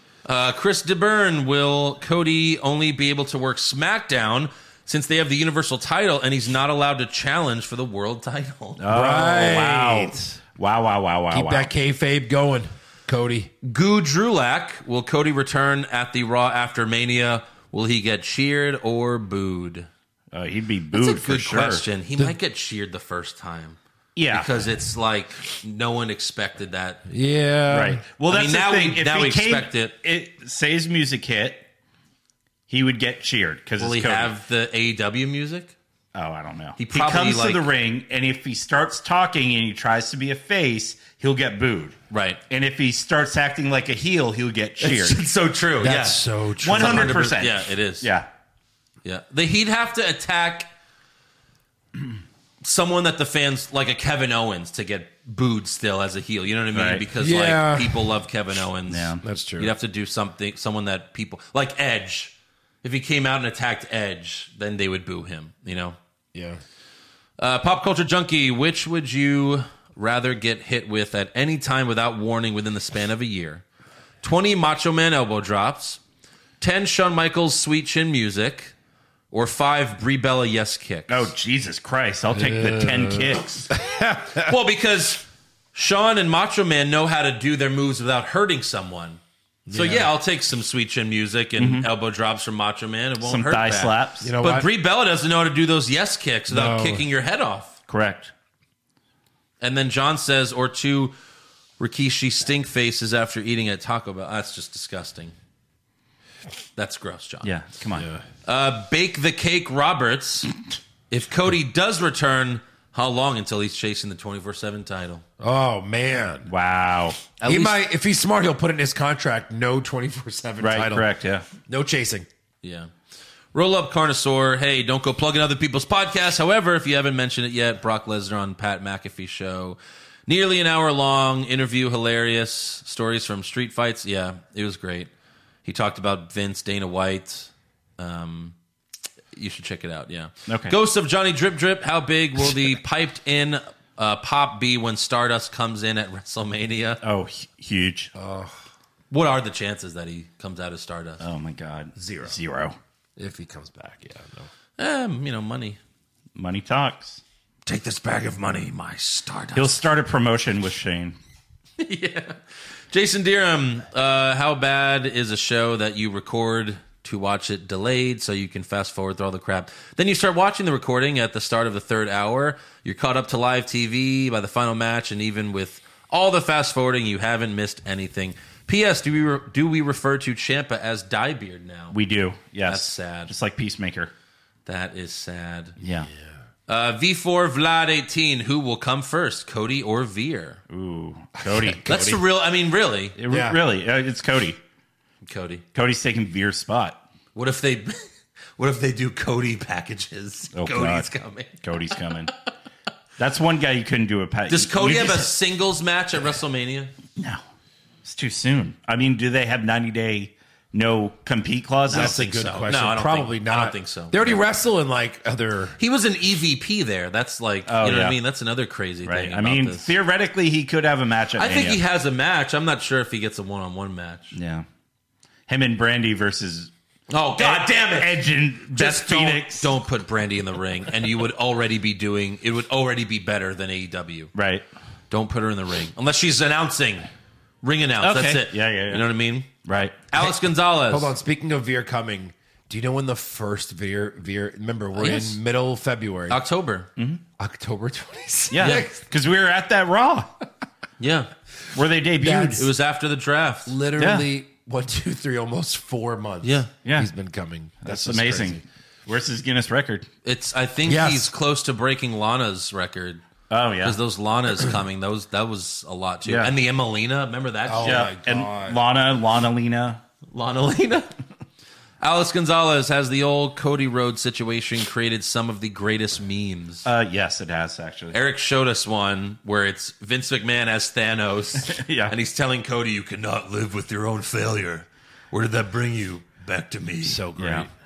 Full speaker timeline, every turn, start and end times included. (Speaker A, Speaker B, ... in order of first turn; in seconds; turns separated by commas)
Speaker A: 0.2-8.8, Speaker B: 8.8-11.7, Speaker C: 8.9-10.3, Speaker C: 11.3-13.5, Speaker A: 13.6-19.9, Speaker B: 20.3-21.8, Speaker A: 20.9-23.8, Speaker B: 24.1-24.5, Speaker A: 24.3-27.0, Speaker C: 27.1-28.0, Speaker B: 27.7-31.6, Speaker A: 28.2-29.9, Speaker B: 32.7-34.3, Speaker A: 33.8-35.7, Speaker B: 36.1-42.0, Speaker A: 36.8-37.7, Speaker A: 42.1-42.4, Speaker B: 42.5-45.2, Speaker A: 44.8-48.1, Speaker C: 45.8-47.3, Speaker B: 46.6-48.3, Speaker A: 49.0-50.7, Speaker A: 52.6-66.0, Speaker B: 56.7-57.0, Speaker C: 57.1-58.0, Speaker B: 58.9-59.2, Speaker C: 59.2-59.7, Speaker C: 66.3-66.6, Speaker A: 67.4-73.6, Speaker A: 74.2-76.0, Speaker A: 76.6-78.7, Speaker A: 79.3-81.3, Speaker B: 81.1-83.7, Speaker C: 82.3-84.5, Speaker A: 84.4-89.2, Speaker C: 89.7-90.1, Speaker A: 89.7-97.7, Speaker B: 91.6-91.9, Speaker B: 93.2-94.3, Speaker C: 94.2-94.7, Speaker C: 96.5-97.0, Speaker B: 97.9-98.3, Speaker A: 99.6-101.2, Speaker A: 101.8-105.3, Speaker A: 106.8-107.5, Speaker B: 107.4-108.1, Speaker C: 107.9-108.2, Speaker A: 108.4-110.5, Speaker A: 111.1-115.2, Speaker C: 115.4-116.5, Speaker B: 116.5-117.2, Speaker A: 117.4-117.8, Speaker C: 117.4-121.1, Speaker B: 120.6-121.5, Speaker C: 121.7-122.3, Speaker A: 122.6-122.9, Speaker A: 123.5-135.1, Speaker A: 135.6-138.5, Speaker A: 139.3-147.0, Speaker B: 140.5-140.8, Speaker B: 147.0-148.1, Speaker C: 148.1-148.6, Speaker A: 149.1-151.2, Speaker B: 151.2-152.8, Speaker C: 153.2-154.5, Speaker A: 154.8-155.8, Speaker B: 156.3-157.2, Speaker A: 157.7-159.8, Speaker B: 159.5-161.2, Speaker A: 161.8-162.4, Speaker A: 162.9-181.9, Speaker B: 181.9-184.1, Speaker A: 182.7-183.3, Speaker A: 184.7-185.8, Speaker B: 185.8-186.1, Speaker C: 186.0-186.3, Speaker A: 186.7-190.6, Speaker B: 190.7-192.2, Speaker C: 191.4-192.2, Speaker A: 191.9-193.2, Speaker B: 193.2-194.6, Speaker C: 193.3-193.6, Speaker A: 195.2-195.6, Speaker B: 195.7-197.0, Speaker A: 197.3-201.9, Speaker B: 200.5-202.3, Speaker B: 203.2-205.3, Speaker A: 204.5-206.9, Speaker B: 208.0-212.3, Speaker C: 211.9-215.8, Speaker A: 211.9-214.4, Speaker A: 215.8-219.9, Speaker B: 217.7-218.2, Speaker B: 219.0-221.8, Speaker A: 221.4-224.3, Speaker B: 224.3-224.7, Speaker B: 225.5-226.7, Speaker A: 227.1-228.2, Speaker B: 227.4-229.7, Speaker A: 228.7-234.3, Speaker B: 234.3-234.7, Speaker A: 235.1-237.1, Speaker A: 237.6-239.5, Speaker B: 238.0-239.0, Speaker B: 239.6-240.0, Speaker A: 240.1-241.1, Speaker C: 240.9-246.4, Speaker A: 244.9-245.4, Speaker A: 246.3-246.9, Speaker B: 247.0-247.2, Speaker C: 247.4-248.9, Speaker B: 248.5-250.3, Speaker A: 248.6-248.8, Speaker A: 251.0-251.3, Speaker B: 251.7-252.6, Speaker C: 252.2-252.7, Speaker A: 252.6-253.7, Speaker C: 253.7-258.6, Speaker B: 254.0-254.3, Speaker A: 256.4-256.7, Speaker B: 256.8-257.1, Speaker B: 257.8-260.1, Speaker A: 260.2-263.2, Speaker C: 260.8-261.3, Speaker B: 263.5-264.0, Speaker A: 263.8-268.1, Speaker B: 266.2-266.5, Speaker C: 267.6-268.8, Speaker B: 267.8-270.0, Speaker A: 270.3-271.1, Speaker A: 272.0-276.9, Speaker B: 276.8-278.2, Speaker A: 278.1-287.2, Speaker B: 281.7-282.1, Speaker C: 287.0-287.7, Speaker B: 287.4-287.7